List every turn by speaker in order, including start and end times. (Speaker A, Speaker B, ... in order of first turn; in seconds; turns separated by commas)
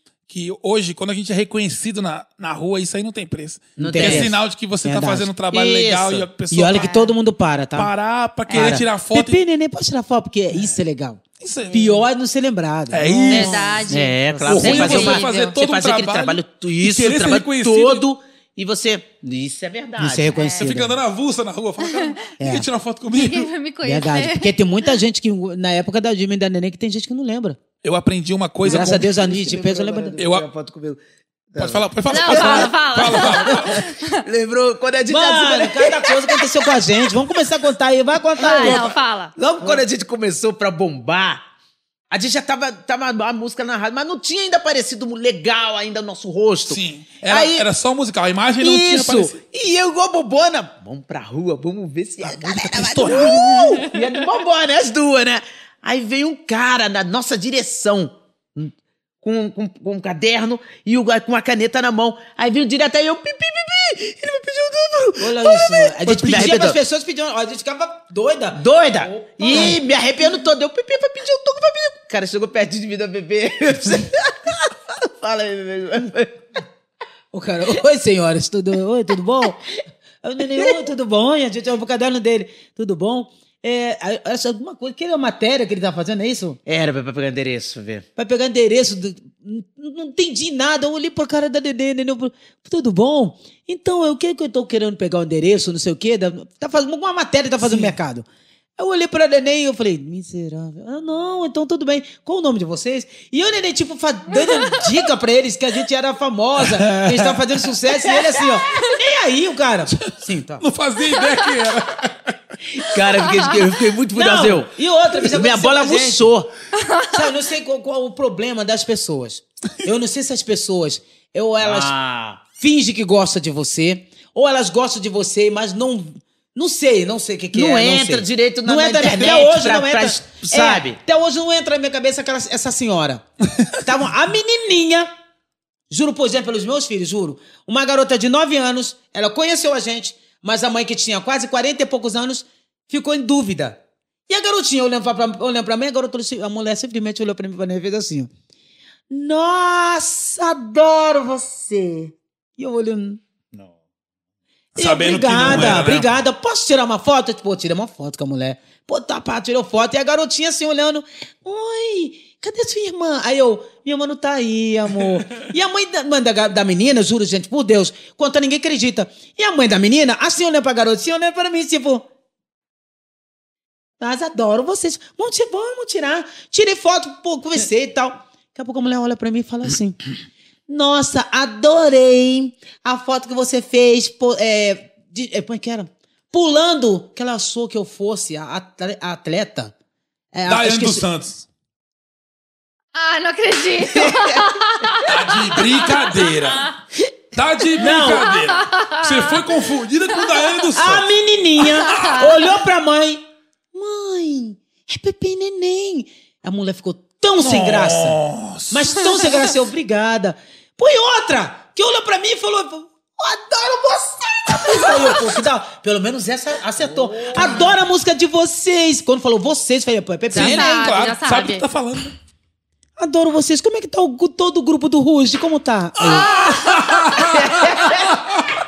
Speaker A: 0.3-6.9, Speaker B: 3.8-4.3, Speaker C: 3.8-5.3, Speaker B: 5.5-6.3, Speaker C: 6.5-7.9, Speaker D: 6.7-7.1, Speaker A: 7.8-9.4, Speaker D: 8.5-8.8, Speaker C: 8.5-15.1, Speaker A: 11.4-12.0, Speaker A: 12.9-13.9, Speaker D: 13.3-15.6, Speaker B: 13.9-20.3, Speaker A: 14.5-18.1, Speaker C: 20.0-21.0, Speaker D: 20.3-20.7, Speaker A: 20.6-23.5, Speaker D: 21.8-22.1, Speaker C: 22.4-22.7, Speaker D: 23.1-24.6, Speaker C: 23.8-27.6, Speaker A: 27.8-29.1, Speaker C: 28.6-30.2, Speaker B: 28.6-31.0, Speaker A: 30.2-30.5, Speaker B: 31.5-36.4, Speaker A: 31.6-33.9, Speaker D: 32.1-34.2, Speaker C: 35.1-38.9, Speaker D: 38.4-39.3, Speaker B: 38.4-41.4, Speaker C: 39.6-39.9, Speaker B: 42.1-47.7, Speaker A: 46.7-49.4, Speaker B: 48.6-66.8, Speaker A: 52.2-53.9, Speaker C: 65.2-69.8, Speaker A: 66.0-66.6, Speaker B: 68.5-76.4, Speaker C: 77.3-86.6, Speaker B: 86.7-88.1, Speaker C: 88.2-98.3, Speaker C: 98.8-110.6, Speaker D: 104.5-104.8, Speaker A: 106.6-107.5, Speaker A: 110.1-112.4, Speaker D: 111.2-111.5, Speaker B: 112.8-114.7, Speaker C: 114.1-116.3, Speaker B: 115.2-116.5, Speaker D: 116.8-117.1, Speaker C: 117.1-121.9, Speaker B: 121.6-122.4, Speaker C: 122.6-133.2, Speaker B: 127.5-131.0, Speaker C: 133.8-135.1, Speaker C: 135.9-148.3, Speaker C: 149.1-153.2, Speaker C: 154.8-172.1, Speaker A: 154.8-156.1, Speaker C: 174.0-180.0, Speaker C: 180.7-189.7, Speaker C: 190.3-191.1, Speaker A: 190.5-191.5, Speaker D: 192.9-196.4, Speaker A: 195.0-196.7, Speaker A: 197.3-201.1, Speaker C: 197.7-198.3, Speaker D: 198.2-199.5, Speaker C: 200.7-203.2, Speaker D: 201.6-202.3, Speaker A: 201.8-202.1, Speaker C: 203.7-208.2, Speaker A: 207.4-209.4, Speaker C: 208.7-220.7, Speaker B: 216.8-217.7, Speaker D: 220.3-221.7, Speaker A: 220.3-222.1, Speaker C: 223.0-226.4, Speaker A: 226.0-228.5, Speaker D: 226.1-227.2, Speaker B: 227.2-228.2